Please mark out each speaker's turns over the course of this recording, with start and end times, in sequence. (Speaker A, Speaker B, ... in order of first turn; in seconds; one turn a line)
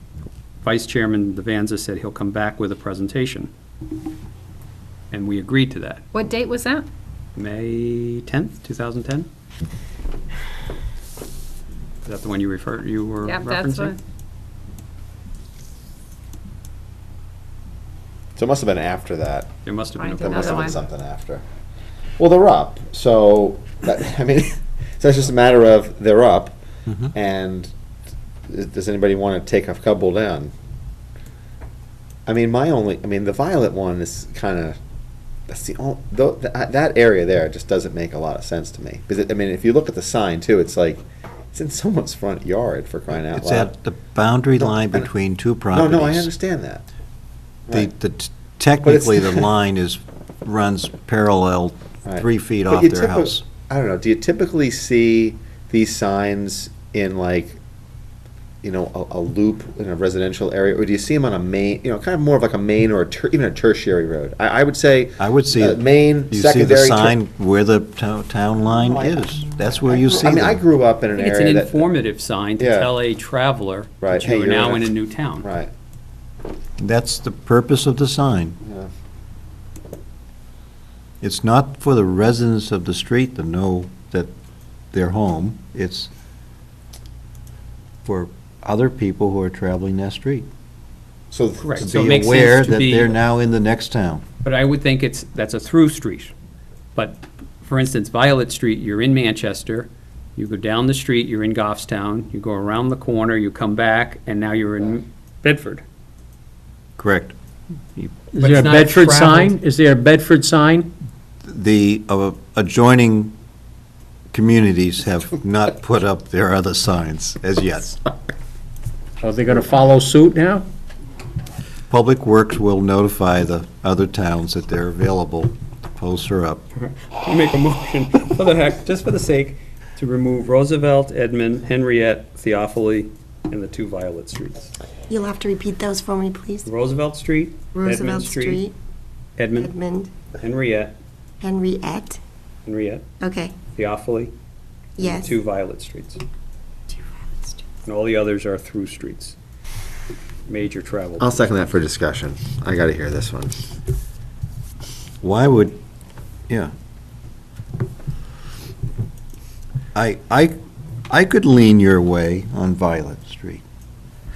Speaker A: 0.6-3.5
Speaker A: 5.1-6.0
Speaker B: 6.1-6.9
Speaker A: 7.3-9.3
Speaker A: 12.0-13.9
Speaker B: 13.2-14.0
Speaker C: 18.4-21.4
Speaker A: 19.6-20.9
Speaker B: 20.0-20.7
Speaker C: 22.2-27.7
Speaker C: 28.5-30.5
Speaker C: 32.2-34.8
Speaker C: 35.5-43.7
Speaker D: 43.2-46.3
Speaker C: 44.6-45.1
Speaker C: 45.7-46.8
Speaker D: 47.7-53.5
Speaker C: 48.8-49.5
Speaker C: 52.0-57.6
Speaker C: 58.6-67.1
Speaker D: 65.2-70.6
Speaker C: 68.7-71.9
Speaker A: 71.1-75.5
Speaker C: 72.6-72.9
Speaker C: 74.0-75.7
Speaker D: 76.8-78.6
Speaker C: 78.6-78.9
Speaker D: 81.2-84.3
Speaker D: 84.9-86.1
Speaker D: 88.0-90.5
Speaker C: 91.3-92.3
Speaker A: 91.6-93.2
Speaker D: 91.8-94.2
Speaker A: 94.4-96.3
Speaker A: 96.9-105.8
Speaker D: 107.0-107.3
Speaker E: 108.3-110.9
Speaker A: 108.4-109.5
Speaker D: 111.5-113.3
Speaker D: 114.3-117.9
Speaker E: 119.2-120.6
Speaker D: 121.9-126.6
Speaker A: 126.7-134.7
Speaker F: 135.1-136.7
Speaker A: 136.6-138.6
Speaker F: 137.7-138.7
Speaker A: 139.4-139.7
Speaker F: 139.5-140.1
Speaker A: 140.3-141.0
Speaker F: 141.4-142.2
Speaker A: 142.7-143.0
Speaker F: 143.2-143.6
Speaker A: 143.7-144.3
Speaker F: 145.0-145.4
Speaker A: 145.0-146.2
Speaker A: 147.8-149.3
Speaker A: 150.5-151.7
Speaker C: 151.2-153.7
Speaker D: 155.2-155.8
Speaker D: 159.9-160.6
Speaker D: 161.1-163.6